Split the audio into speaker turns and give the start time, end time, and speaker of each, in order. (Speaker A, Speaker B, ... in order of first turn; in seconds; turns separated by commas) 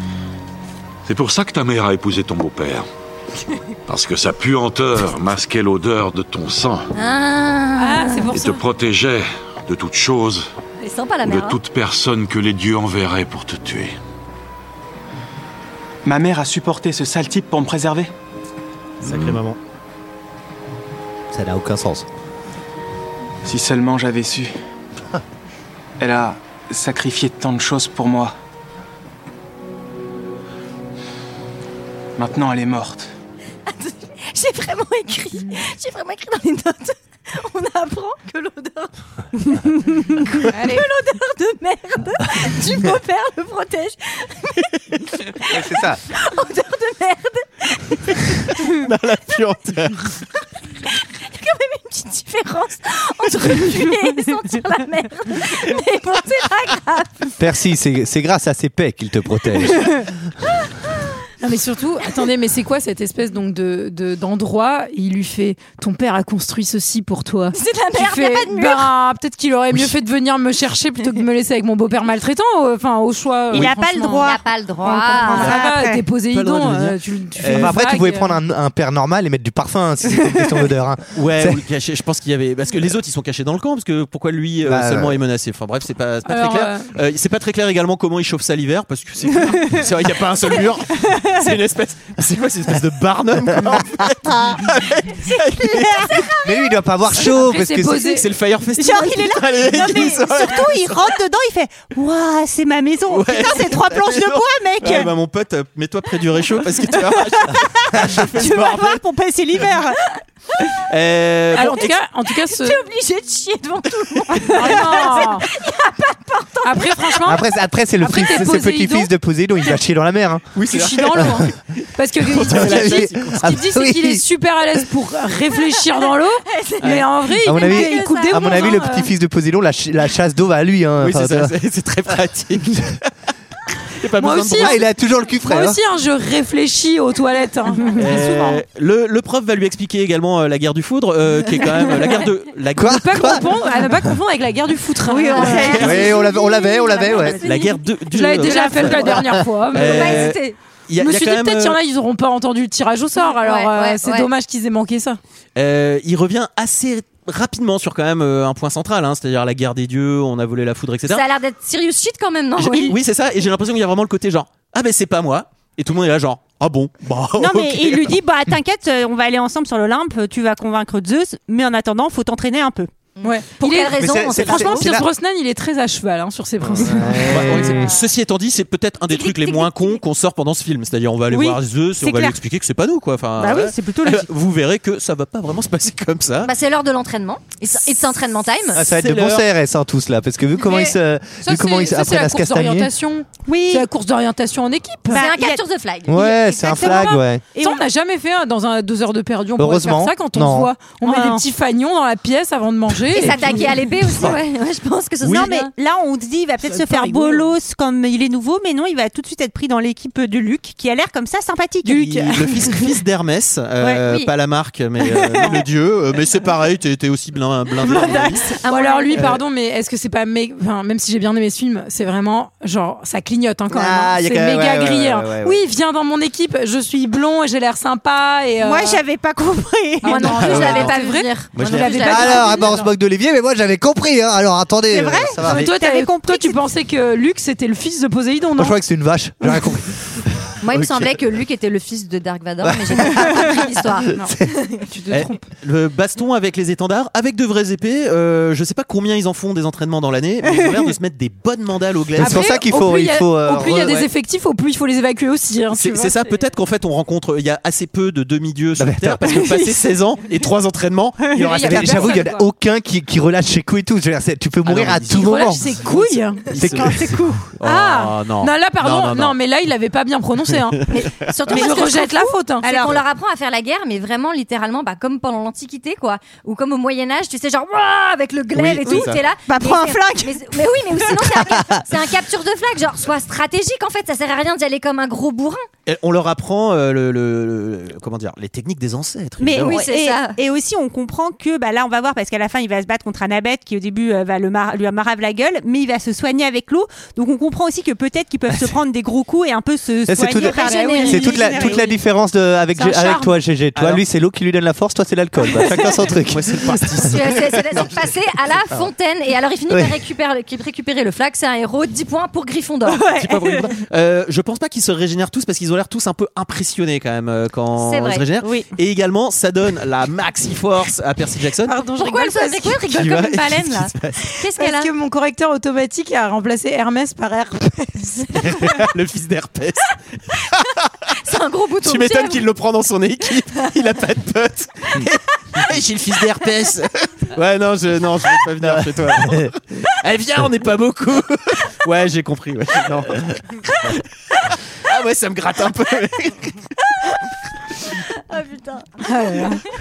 Speaker A: 1.1-2.9, Speaker A: 3.9-6.9, Speaker B: 7.0-8.3, Speaker C: 7.8-8.6, Speaker A: 8.3-10.5, Speaker B: 10.8-11.6, Speaker A: 11.2-14.0, Speaker D: 16.1-18.1, Speaker E: 19.0-19.6, Speaker F: 21.3-22.1, Speaker D: 23.4-24.5, Speaker D: 26.0-28.3, Speaker D: 32.2-33.1, Speaker B: 33.7-48.9, Speaker C: 40.5-40.8, Speaker F: 45.5-46.0, Speaker E: 48.7-50.2, Speaker B: 50.9-57.4, Speaker F: 57.4-60.1, Speaker C: 61.4-74.3, Speaker B: 67.5-68.9, Speaker G: 73.5-76.0, Speaker B: 74.2-75.6, Speaker C: 74.8-78.4, Speaker E: 76.3-77.8, Speaker F: 77.5-81.6, Speaker E: 81.1-96.3, Speaker F: 84.6-85.2, Speaker C: 86.3-86.9, Speaker F: 93.7-94.1, Speaker F: 96.4-98.1, Speaker C: 97.2-98.3, Speaker E: 97.9-101.1, Speaker G: 98.8-105.1, Speaker E: 103.1-109.0, Speaker G: 107.5-110.0, Speaker E: 110.9-112.0, Speaker C: 111.5-112.8, Speaker B: 112.3-117.4, Speaker C: 114.5-115.5, Speaker C: 116.6-117.4, Speaker F: 117.2-120.6, Speaker C: 118.0-119.1, Speaker E: 120.5-123.6, Speaker C: 120.6-129.1, Speaker F: 121.2-121.5, Speaker F: 122.4-124.2, Speaker B: 125.8-128.8, Speaker E: 126.8-127.1, Speaker F: 127.4-131.5, Speaker E: 131.0-133.1, Speaker E: 134.0-134.8, Speaker C: 134.2-134.8, Speaker F: 134.6-135.8, Speaker C: 135.3-138.6, Speaker E: 137.9-143.4, Speaker F: 142.8-143.5, Speaker C: 142.8-146.0, Speaker G: 145.1-146.1, Speaker B: 145.1-147.8, Speaker E: 145.6-146.2, Speaker F: 145.7-147.4, Speaker E: 147.4-151.8, Speaker C: 148.1-150.4, Speaker B: 148.5-150.6, Speaker C: 151.0-155.2, Speaker B: 153.2-154.3, Speaker E: 155.6-161.2, Speaker B: 161.1-163.0, Speaker E: 162.6-168.1, Speaker G: 167.4-172.9, Speaker B: 173.2-175.0, Speaker C: 173.2-177.5, Speaker F: 174.0-175.1, Speaker F: 176.7-178.0, Speaker E: 176.9-186.5, Speaker B: 179.1-180.0, Speaker G: 181.3-182.4, Speaker G: 183.4-184.3, Speaker B: 186.4-188.8, Speaker F: 188.7-192.9, Speaker E: 188.8-189.4, Speaker C: 190.6-195.2, Speaker G: 193.5-193.9, Speaker G: 195.1-195.6, Speaker B: 195.1-196.8, Speaker F: 196.1-197.4, Speaker C: 196.5-203.6, Speaker G: 197.6-197.8, Speaker F: 199.6-200.7, Speaker G: 201.0-201.4, Speaker B: 203.1-205.7, Speaker E: 204.1-204.4, Speaker E: 205.2-205.5, Speaker G: 205.2-212.0, Speaker E: 206.7-207.5, Speaker C: 211.8-212.9, Speaker E: 211.9-218.5, Speaker B: 214.1-214.3, Speaker C: 217.9-229.0, Speaker G: 217.9-218.3, Speaker B: 218.7-219.3, Speaker F: 223.7-225.6, Speaker G: 228.6-230.4, Speaker C: 230.0-232.8, Speaker B: 230.1-232.8, Speaker E: 230.3-231.0, Speaker E: 231.5-232.3, Speaker F: 232.0-235.7, Speaker G: 234.9-236.6, Speaker C: 235.4-238.8, Speaker F: 238.6-240.0, Speaker B: 240.6-244.8, Speaker E: 240.7-241.1, Speaker F: 242.6-243.6, Speaker C: 244.1-245.5, Speaker F: 244.2-244.5, Speaker E: 245.1-252.6, Speaker F: 252.2-254.1, Speaker C: 252.2-256.2, Speaker E: 255.7-262.2, Speaker F: 258.8-259.3, Speaker C: 259.3-259.7, Speaker C: 261.3-262.5, Speaker F: 261.6-265.7, Speaker E: 264.6-269.4, Speaker C: 265.1-266.6, Speaker F: 266.6-267.3, Speaker G: 266.8-267.4, Speaker C: 267.6-270.9, Speaker E: 270.5-271.5, Speaker B: 270.9-285.7, Speaker C: 271.5-272.7, Speaker G: 272.6-273.1, Speaker E: 278.5-279.2, Speaker G: 278.9-281.3, Speaker F: 281.2-281.8, Speaker E: 285.9-289.8, Speaker G: 289.4-302.0, Speaker B: 289.6-290.4, Speaker F: 300.1-306.8, Speaker B: 300.4-301.4, Speaker C: 302.8-303.4, Speaker E: 303.8-304.0, Speaker E: 305.8-308.2, Speaker B: 307.0-313.0, Speaker F: 309.7-310.0, Speaker G: 312.9-313.7, Speaker E: 313.1-321.8, Speaker B: 317.8-318.2, Speaker G: 318.4-318.7, Speaker C: 321.7-323.1, Speaker B: 322.0-324.9, Speaker E: 322.9-324.2, Speaker C: 324.5-328.6, Speaker E: 328.3-329.9, Speaker E: 330.5-330.9, Speaker B: 331.2-332.5, Speaker E: 331.8-343.4, Speaker F: 338.7-339.5, Speaker E: 344.8-346.7, Speaker B: 348.3-349.0, Speaker C: 349.0-349.6